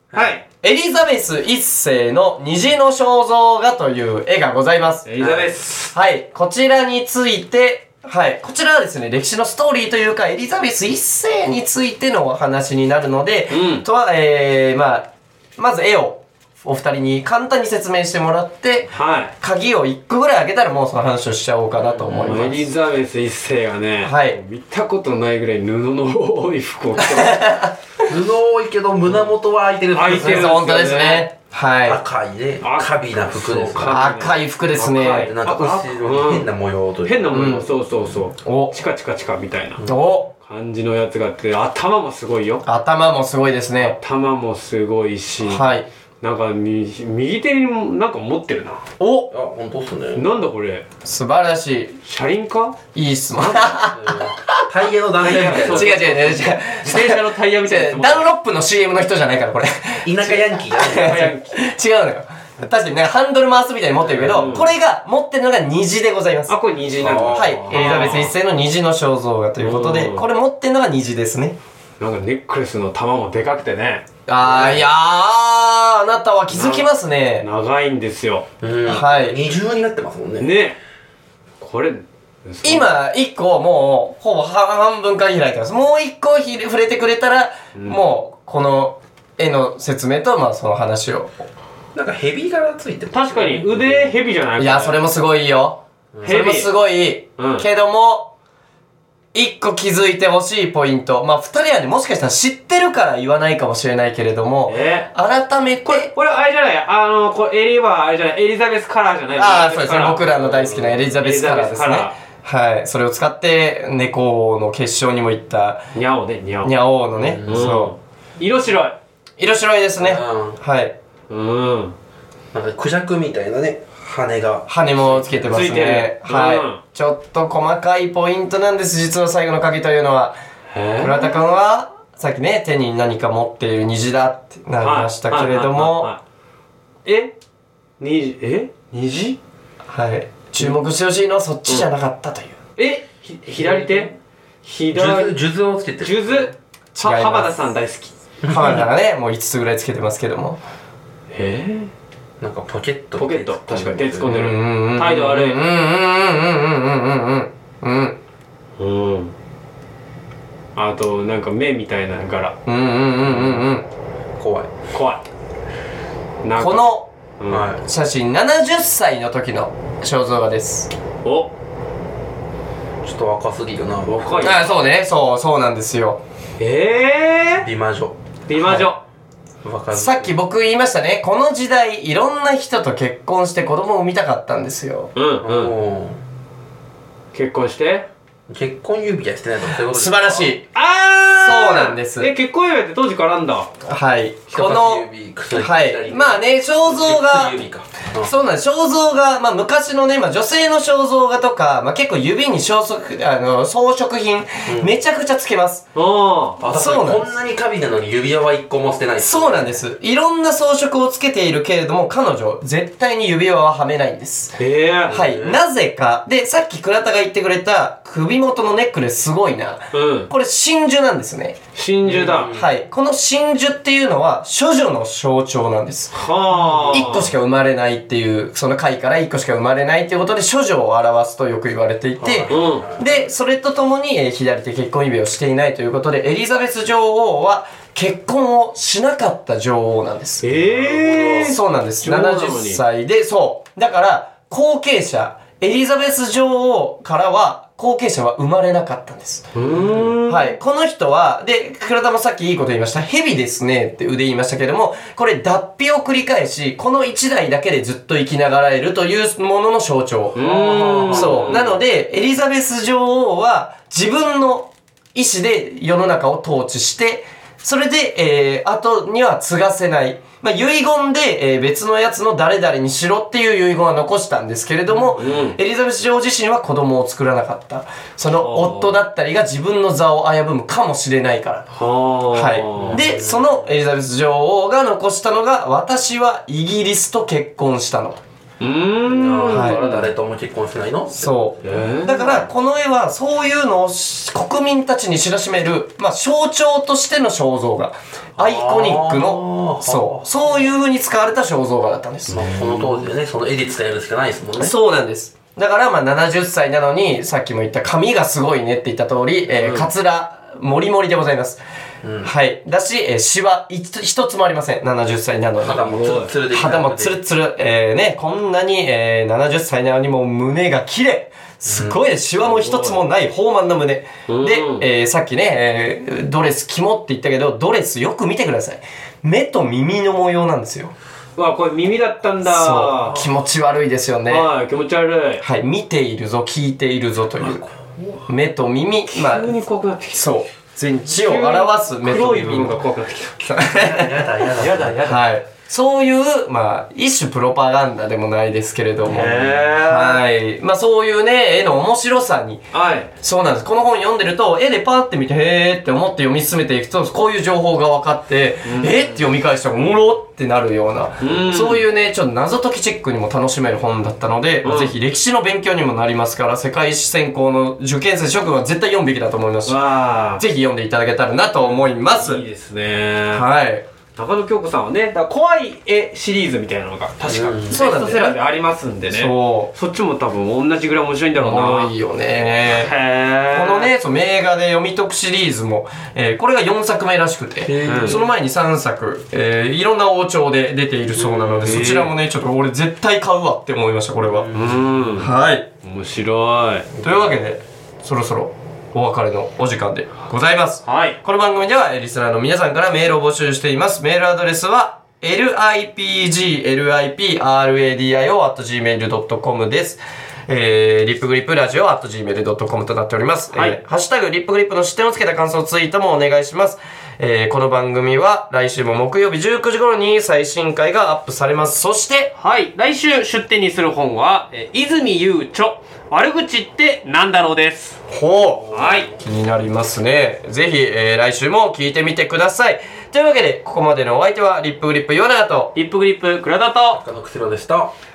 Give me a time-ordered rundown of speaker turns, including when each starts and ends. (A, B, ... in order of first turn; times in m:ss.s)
0:00.1-0:00.4 A
0:00.6-0:05.1 B
0:05.1-0:05.9 A
0:05.2-0:05.5 C
0:05.9-0:22.7 B
0:13.5-0:13.8 A
0:18.9-0:19.3 A
0:21.8-0:22.6 C
0:22.2-0:27.5 A
0:24.0-0:24.4 B
0:27.0-0:28.0 B
0:28.0-0:30.6 C
0:29.9-0:31.3 A
0:30.1-0:32.0 B
0:31.8-0:34.0 C
0:32.6-0:36.5 A
0:33.8-0:35.3 B
0:35.0-0:37.8 C
0:37.0-0:39.8 A
0:37.3-0:37.7 B
0:38.4-0:38.8 B
0:39.8-0:40.0 C
0:39.8-0:40.3 B
0:40.4-0:42.6 A
0:42.6-0:44.0 B
0:44.0-0:48.8 A
0:45.4-0:45.9 B
0:49.0-0:49.3 B
0:49.3-0:50.2 C
0:50.2-0:50.8 A
0:51.0-0:52.0 B
0:52.0-0:52.8 A
0:52.9-0:54.7 B
0:53.4-0:53.7 A
0:53.9-0:56.6 C
0:55.2-0:58.2 A
0:55.3-1:06.5 B
1:00.0-1:01.3 C
1:00.8-1:01.6 A
1:04.0-1:04.5 C
1:04.3-1:04.7 A
1:06.5-1:08.3 A
1:06.9-1:08.2 C
1:07.3-1:11.6 B
1:09.6-1:10.3 A
1:12.0-1:14.1 A
1:14.3-1:17.5 B
1:14.4-1:14.9 C
1:16.5-1:16.9 A
1:17.4-1:18.5 A
1:18.6-1:20.5 C
1:18.8-1:19.4 B
1:20.4-1:20.8 A
1:21.6-1:22.9 A
1:22.6-1:31.5 B
1:27.8-1:28.0 A
1:32.0-1:34.2 C
1:33.1-1:35.0 A
1:34.6-1:38.3 B
1:36.1-1:36.4 C
1:36.2-1:36.7 A
1:37.4-1:37.7 A
1:39.3-1:46.1 B
1:44.7-1:45.1 A
1:45.8-1:52.2 A
1:49.4-1:55.8 B
1:55.9-1:56.8 A
1:56.6-1:57.9 B
1:57.1-1:57.8 C
1:57.4-1:59.0 A
1:59.4-2:01.0 B
2:00.0-2:00.6 C
2:01.3-2:02.0 A
2:02.5-2:05.5 C
2:04.7-2:10.4 B
2:05.5-2:06.8 A
2:10.7-2:11.4 A
2:11.0-2:16.1 B
2:14.8-2:16.2 A
2:17.0-2:17.3 A
2:18.0-2:19.4 A
2:19.9-2:22.6 B
2:22.8-2:24.1 A
2:23.6-2:24.1 C
2:24.6-2:25.4 A
2:24.9-2:26.5 C
2:26.0-2:28.2 A
2:27.0-2:27.5 B
2:28.4-2:28.8 C
2:28.5-2:30.6 B
2:31.3-2:31.9 A
2:32.4-2:34.3 C
2:33.2-2:35.6 A
2:34.3-2:38.2 B
2:38.8-2:39.3 A
2:40.8-2:42.6 A
2:42.7-2:43.9 B
2:44.4-2:44.7 C
2:44.9-2:45.2 A
2:46.4-2:47.7 A
2:46.6-2:47.1 B
2:47.5-2:47.8 C
2:47.8-2:50.9 B
2:51.2-2:51.5 A
2:53.0-2:54.6 C
2:54.1-2:54.6 A
2:54.4-2:56.2 B
2:56.6-2:57.7 A
2:57.6-2:58.2 C
2:58.5-2:59.0 A
2:58.5-2:58.9 B
2:59.6-3:00.4 C
2:59.9-3:05.1 B
3:05.2-3:05.7 A
3:05.4-3:06.2 C
3:07.3-3:08.1 A
3:08.5-3:10.6 C
3:09.9-3:10.6 B
3:10.8-3:13.7 A
3:11.4-3:12.3 B
3:13.8-3:17.6 B
3:14.5-3:18.3 C
3:18.2-3:25.9 B
3:24.7-3:25.0 C
3:26.0-3:26.6 A
3:26.6-3:29.8 C
3:26.7-3:27.3 B
3:29.2-3:34.6 B
3:34.6-3:35.3 A
3:35.1-3:41.6 B
3:35.1-3:35.6 C
3:39.9-3:40.3 A
3:41.8-3:42.5 A
3:42.0-3:42.7 C
3:42.5-3:46.2 B
3:46.1-3:47.3 A
3:46.5-3:47.1 C
3:46.9-4:00.5 B
3:52.2-3:53.2 C
3:52.5-3:52.9 A
4:00.4-4:02.8 A
4:00.5-4:01.6 C
4:01.4-4:09.5 B
4:09.6-4:10.6 A
4:09.7-4:10.1 C
4:10.3-4:20.4 B
4:20.4-4:21.8 A
4:20.4-4:21.7 C
4:21.0-4:41.7 B
4:34.9-4:35.6 A
4:38.4-4:39.0 A
4:41.7-4:43.0 A
4:42.3-4:48.2 B
4:42.8-4:43.6 C
4:48.6-4:50.1 A
4:49.0-4:51.3 C
4:49.5-4:49.8 B
4:51.1-5:02.8 B
4:51.6-4:52.4 A
4:58.4-5:00.7 C
5:02.3-5:04.7 C
5:04.6-5:11.6 B
5:09.5-5:09.9 A
5:12.0-5:12.3 C
5:12.2-5:30.9 B
5:15.6-5:17.2 C
5:15.8-5:16.3 A
5:21.6-5:22.0 C
5:22.4-5:23.0 A
5:24.3-5:24.8 A
5:31.4-5:33.2 A
5:32.4-5:34.5 B
5:34.3-5:35.4 A
5:35.4-5:37.6 B
5:37.4-5:38.2 C
5:38.3-5:39.5 B
5:39.1-5:40.3 A
5:40.2-5:42.8 B
5:41.1-5:43.5 A
5:43.4-5:44.2 B
5:43.7-5:45.0 C
5:44.5-5:45.2 A
5:45.0-5:52.6 B
5:49.0-5:50.2 A
5:52.7-5:53.1 A
5:53.2-6:09.8 B
5:58.6-5:59.0 A
6:01.2-6:01.8 A
6:04.6-6:04.9 A
6:09.7-6:10.4 A
6:10.4-6:12.4 B
6:11.6-6:13.5 A
6:13.3-6:13.9 B
6:14.2-6:21.9 A
6:17.3-6:17.8 C
6:17.7-6:18.4 B
6:19.1-6:19.7 B
6:21.4-6:22.9 B
6:22.7-6:23.9 A
6:23.5-6:34.5 B
6:27.7-6:28.2 C
6:27.8-6:28.2 A
6:31.2-6:32.1 A
6:34.3-6:35.0 C
6:34.5-6:35.3 A
6:35.2-6:35.7 B
6:35.8-6:36.9 A
6:37.0-7:02.3 B
6:40.9-6:41.2 A
6:53.5-6:53.8 A
7:02.4-7:08.0 A
7:08.1-7:15.7 B
7:08.6-7:09.2 C
7:08.7-7:09.1 A
7:15.8-7:17.0 A
7:17.0-7:17.9 C